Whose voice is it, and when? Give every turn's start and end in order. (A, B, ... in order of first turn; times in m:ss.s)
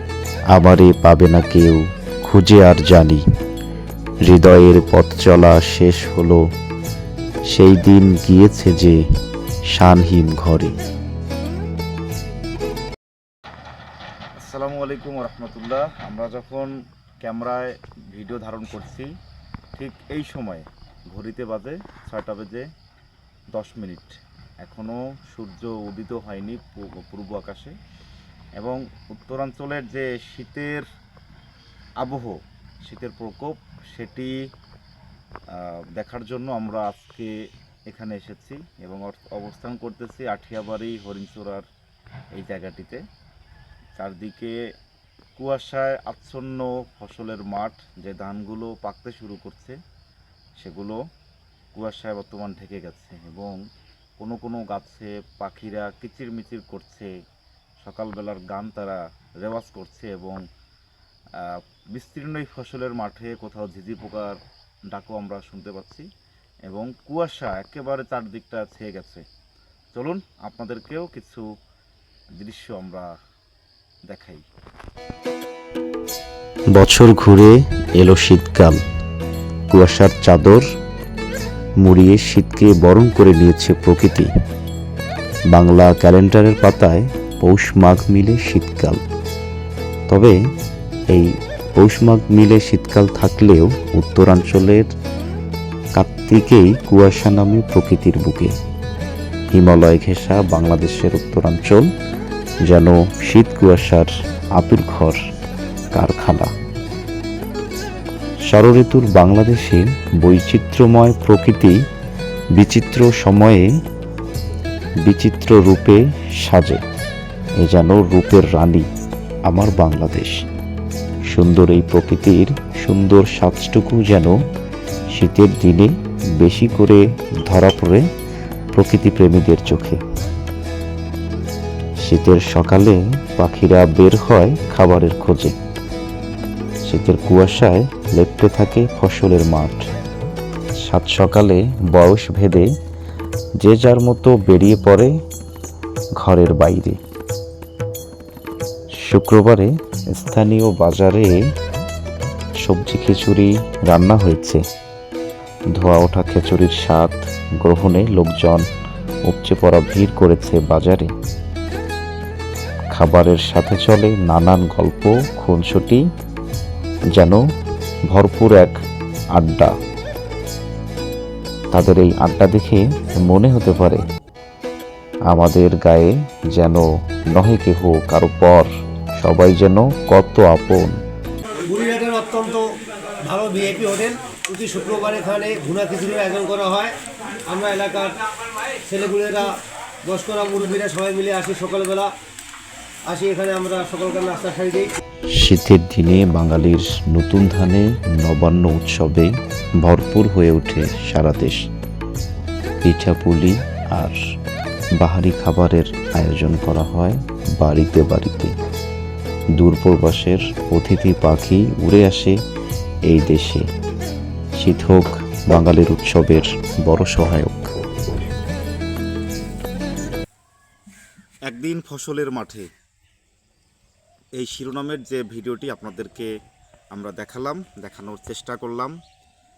0:00.5-0:03.2 A
0:04.2-0:06.4 A
0:07.5-0:09.0 A
0:09.7-0:10.8 A
0:14.4-0:16.7 B
0:17.2-0:19.1 B
0:19.8-0:22.7 B
0:23.6-0:27.8 B
0:28.6-0:30.9 B
0:32.0-0:34.3 B
0:35.5-0:37.3 B
0:37.9-0:41.7 B
0:42.4-0:43.0 B
0:44.0-0:44.6 B
0:45.4-0:49.8 B
0:50.6-0:51.0 B
0:51.8-0:53.6 B
0:54.2-0:57.1 B
0:57.8-1:00.4 B
1:01.4-1:04.4 B
1:04.9-1:06.1 B
1:06.7-1:09.2 B
1:07.0-1:09.2 A
1:09.9-1:11.4 B
1:10.6-1:11.4 A
1:12.4-1:12.7 A
1:12.4-1:13.1 B
1:14.1-1:14.4 A
1:16.7-1:18.8 A
1:19.7-1:20.6 A
1:21.8-1:24.3 A
1:25.5-1:29.0 A
1:30.1-1:30.4 A
1:31.1-1:34.9 A
1:36.0-1:38.6 A
1:39.5-1:41.9 A
1:42.6-1:45.2 A
1:45.9-1:46.5 A
1:48.5-1:51.8 A
1:52.6-1:53.7 A
1:55.0-1:56.8 A
1:57.6-1:58.9 A
1:59.5-2:00.4 A
2:01.3-2:04.4 A
2:05.1-2:08.1 A
2:08.7-2:10.0 A
2:12.0-2:15.6 A
2:16.8-2:19.9 A
2:20.8-2:22.7 A
2:23.6-2:25.1 A
2:26.2-2:27.0 A
2:29.0-2:31.3 A
2:32.6-2:34.6 A
2:35.7-2:38.7 A
2:39.3-2:41.1 A
2:42.9-2:46.0 A
2:47.1-2:47.4 A
2:48.1-2:48.8 A
2:49.4-2:49.7 A
2:51.7-2:54.1 A
2:55.3-3:01.0 A
3:01.6-3:09.5 C
3:10.0-3:12.1 C
3:13.1-3:14.9 C
3:15.3-3:21.7 A
3:22.8-3:24.2 A
3:25.0-3:28.6 A
3:29.6-3:32.4 A
3:33.1-3:33.7 A
3:34.6-3:37.7 A
3:41.5-3:42.7 B
3:44.4-3:46.3 B
3:46.9-3:49.0 B